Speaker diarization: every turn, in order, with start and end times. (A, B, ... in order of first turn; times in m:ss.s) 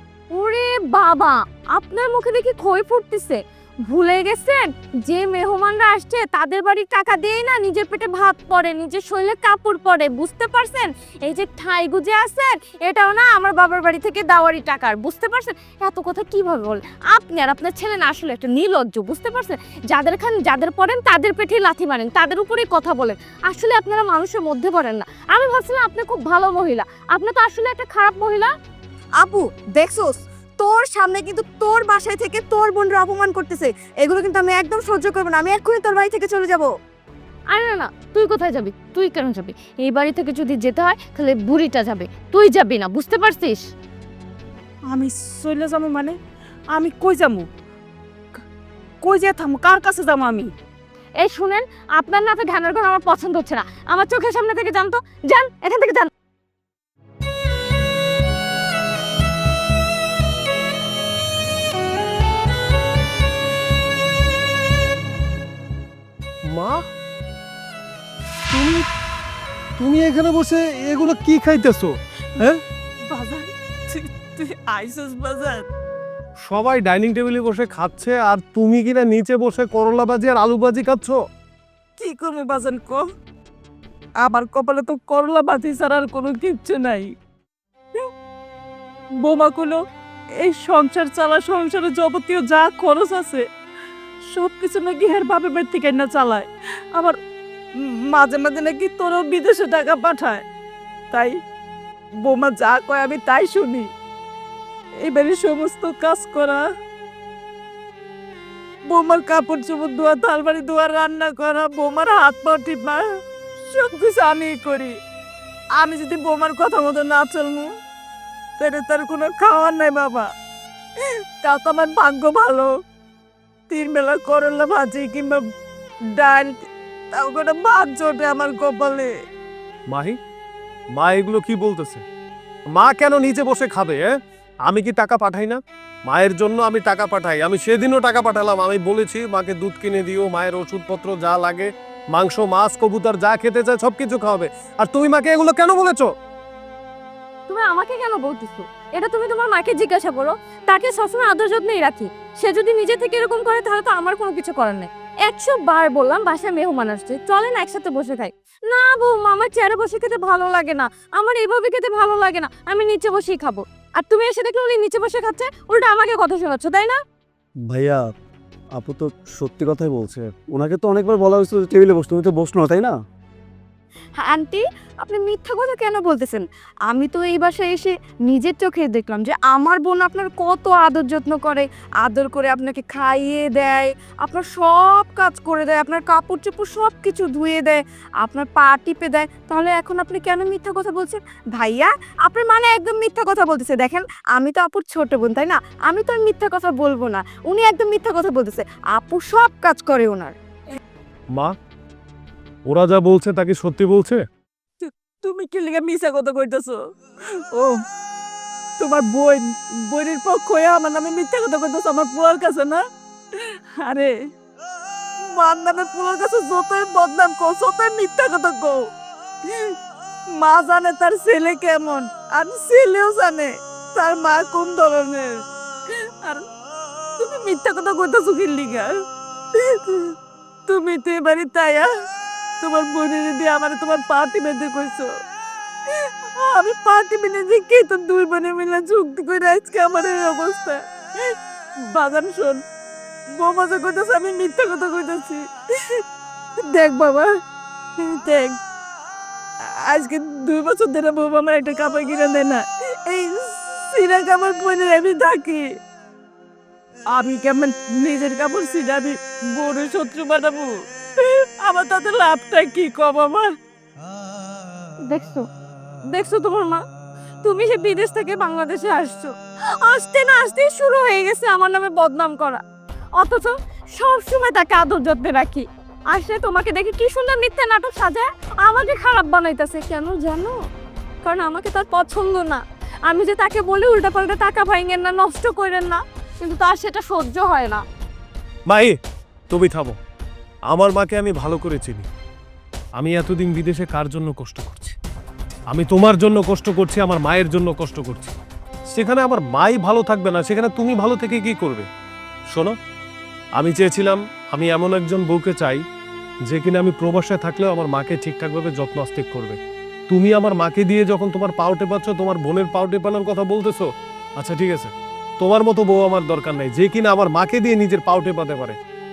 0:00.3-0:28.5 A
0:29.2-0:36.7 B
0:37.5-0:43.6 A
0:44.9-0:46.2 C
0:46.7-0:47.5 C
0:49.0-0:50.5 C
0:51.2-0:56.1 A
1:06.5-1:06.8 D
1:08.5-1:08.8 D
1:09.8-1:12.6 D
1:13.1-1:15.6 C
1:16.4-1:21.2 D
1:22.0-1:23.0 C
1:24.2-1:27.1 C
1:29.2-1:29.8 C
1:30.4-1:33.4 C
1:34.3-1:37.1 C
1:38.4-1:40.4 C
1:42.2-1:43.9 C
1:42.8-1:43.2 B
1:45.1-1:46.6 C
1:48.9-1:53.0 C
1:53.8-1:54.9 C
1:55.8-1:57.7 C
1:56.0-1:56.3 B
1:59.2-2:00.2 C
2:01.4-2:02.6 C
2:03.7-2:05.3 C
2:06.2-2:06.5 C
2:07.2-2:09.0 C
2:09.9-2:10.2 D
2:11.0-2:12.0 D
2:12.8-2:14.1 D
2:14.7-2:26.1 D
2:27.5-2:47.0 A
2:47.6-2:48.1 E
2:48.7-2:53.0 E
2:54.2-3:20.4 B
3:22.7-3:24.2 D
3:25.2-3:26.8 C
3:28.8-3:32.8 C
3:33.8-3:34.1 C
3:35.4-3:38.8 C
3:40.4-3:43.4 C
3:44.0-3:45.3 C
3:47.6-3:48.9 C
3:50.7-3:51.8 C
3:50.9-3:51.5 B
3:52.6-3:55.0 C
3:56.5-4:00.8 C
3:57.6-3:58.0 B
4:01.9-4:02.6 C
4:03.4-4:05.4 C
4:06.7-4:07.2 C
4:08.2-4:08.6 C
4:09.8-4:15.7 C
4:17.1-4:20.7 C
4:21.6-4:23.5 C
4:25.1-4:25.5 A
4:26.1-4:26.8 A
4:27.4-4:32.6 A
4:33.2-4:40.6 A
4:41.2-4:47.8 A
4:48.7-4:49.0 D
4:49.5-4:50.0 D
4:50.7-4:52.1 D
4:53.0-4:55.0 D
4:55.7-4:58.4 D
4:58.9-5:01.9 D
5:03.6-5:05.8 D
5:06.5-5:09.6 D
5:10.1-5:13.9 D
5:14.4-5:18.8 D